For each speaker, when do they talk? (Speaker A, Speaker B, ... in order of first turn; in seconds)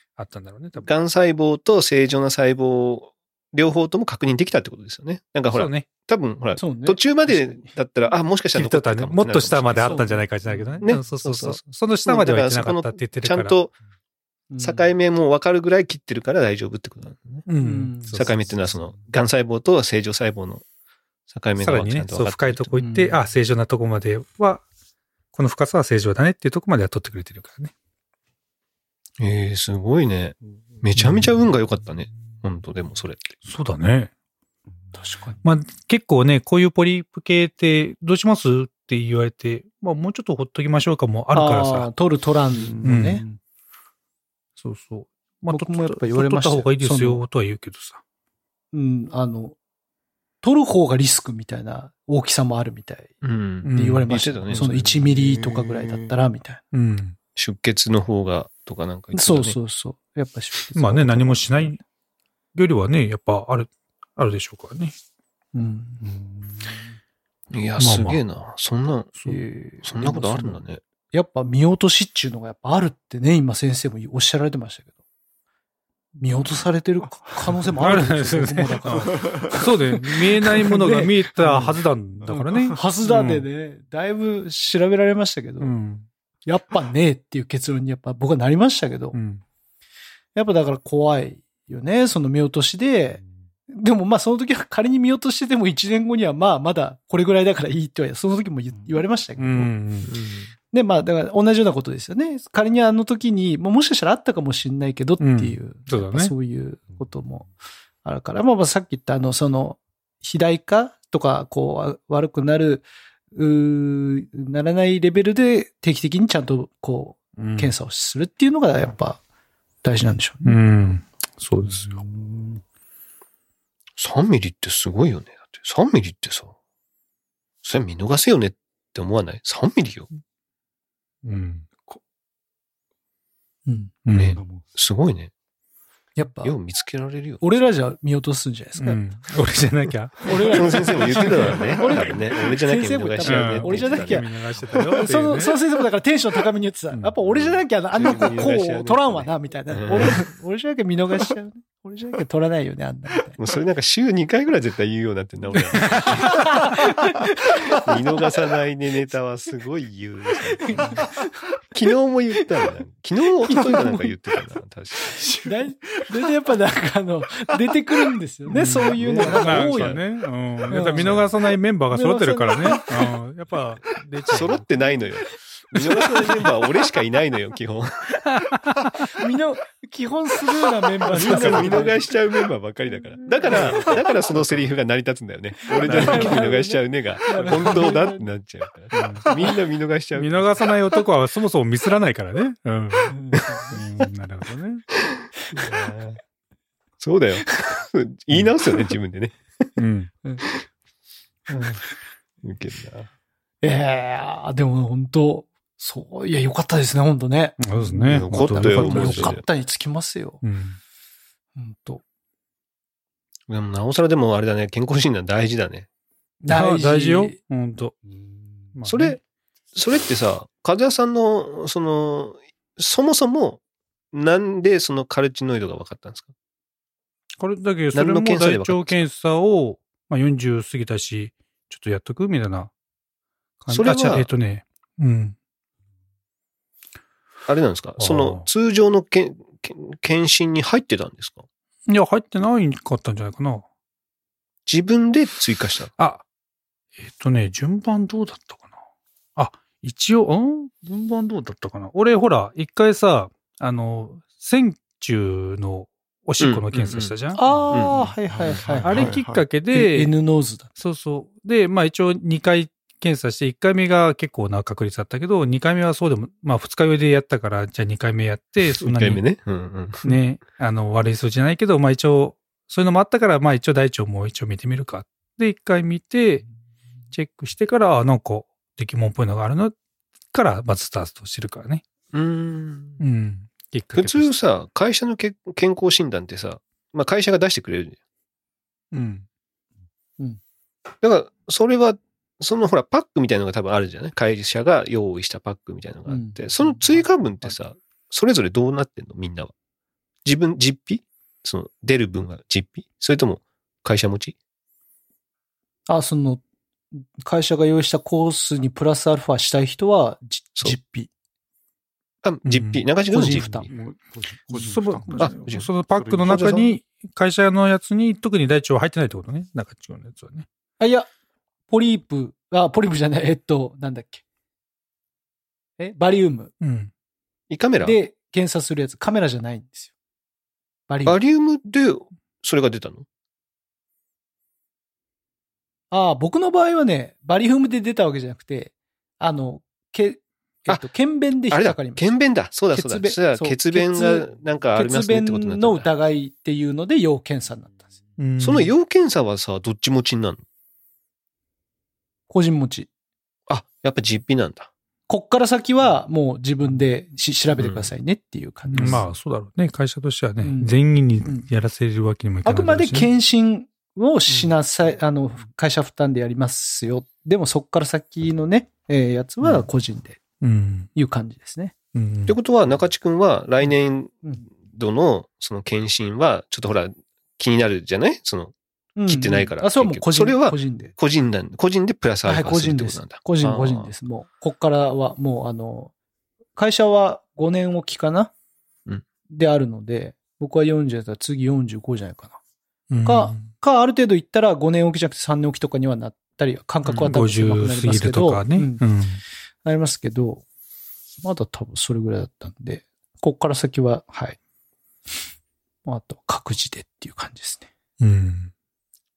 Speaker A: 0.2-0.9, 5.5-5.9, 8.5-13.6, 17.5-18.3, 21.6-24.6, 25.3-27.7, 31.0-31.4, 33.4-34.1, 35.4-41.9, 42.8-43.2, 44.6-48.0, 53.6-54.1, 56.7-57.1, 60.7-61.8, 62.5-64.9, 67.8-68.2, 69.2-69.4, 77.8-83.5, 85.6-86.1, 89.1-89.4, 99.4-100.1, 105.2-106.3, 117.4-117.7, 120.4-122.0, 131.2-131.7, 134.1-134.4, 138.8-141.6, 143.2-145.5, 155.8-156.2, 168.5-174.6, 178.3-178.9, 181.1-181.9, 183.4-184.7, 185.8-186.5, 187.3-187.9, 188.9-189.5, 190.1-194.8, 199.8-200.1, 207.6-209.4, 210.4-210.8, 216.5-217.9, 218.7-219.2, 227.4-232.7, 233.6-235.3, 238.0-238.5, 241.9-243.6, 246.0-246.2, 247.0-248.7, 249.3-257.4, 258.8-260.1, 260.8-269.2, 270.0-276.4, 277.1-279.7, 280.3-281.8, 283.0-284.3, 288.9-289.2, 312.4-312.8, 314.5-320.4, 326.6-326.9, 348.2-348.7, 358.7-363.1, 370.4-370.9, 371.9-372.4, 392.9-393.5, 396.9-399.2, 408.0-408.5
Speaker B: 0.8-10.0, 10.8-13.7, 14.6-17.4, 18.1-20.6, 21.3-22.7, 29.2-33.3, 53.2-54.9, 57.4-59.6, 67.5-69.1, 69.8-70.8, 100.0-100.5, 124.0-126.5, 127.6-130.1, 134.1-135.3, 136.4-137.6, 140.5-144.2, 147.3-150.3, 153.4-156.6, 157.4-161.1, 161.7-165.3, 168.9-170.0, 170.9-171.3, 174.3-178.2, 181.1-190.5, 195.1-196.2, 197.0-199.7, 201.5-201.8, 202.4-203.1, 208.1-209.4, 213.5-215.9, 218.8-219.2, 219.7-223.6, 224.1-226.3, 227.9-229.1, 233.7-234.3, 237.5-241.4, 244.7-245.9, 256.4-257.1, 257.7-258.6, 268.6-270.1, 282.1-283.0, 283.9-288.0, 291.0-299.5, 300.2-304.4, 312.2-313.7, 315.2-315.7, 316.2-316.7, 327.5-328.0, 331.0-333.0, 341.5-345.9, 348.4-350.4, 353.5-354.7, 357.6-357.9, 372.3-378.5, 379.1-383.9
Speaker C: 6.6-7.8, 9.8-10.8, 14.5-14.9, 17.6-18.2, 22.7-23.2, 34.9-35.4, 41.3-43.2, 45.5-47.2, 48.7-49.5, 50.4-53.2, 53.7-56.6, 59.1-61.8, 65.5-66.1, 69.2-70.6, 71.1-74.9, 76.2-85.7, 86.5-89.2, 90.3-99.7, 100.7-107.5, 108.0-119.2, 119.8-120.6, 133.7-133.9, 136.2-136.6, 137.4-139.0, 140.2-153.4, 155.9-157.9, 160.7-161.5, 163.4-164.1, 165.1-170.0, 170.7-171.2, 171.9-173.1, 175.7-176.5, 179.1-182.1, 183.6-184.0, 185.7-188.3, 193.1-193.8, 203.6-210.4, 211.6-212.0, 216.4-217.3, 257.3-259.2, 259.7-260.7, 296.1-297.5, 305.9-306.4, 307.2-311.1, 313.1-313.7, 320.8-321.1, 321.7-324.2, 325.8-326.5, 327.8-329.9, 330.9-331.2, 335.9-347.9, 352.3-352.9, 355.1-359.1, 360.4-360.7, 361.2-361.5, 362.4-370.2, 370.9-371.7, 378.9-380.9, 382.2-385.9, 386.6-388.3, 389.3-392.4, 393.0-398.8, 399.6-400.4, 401.2-404.4, 405.8-407.7
Speaker D: 42.6-43.1, 54.7-56.1, 66.0-66.7, 79.2-79.5, 121.6-122.6, 134.2-134.6, 218.1-218.4, 257.4-259.5, 313.7-316.6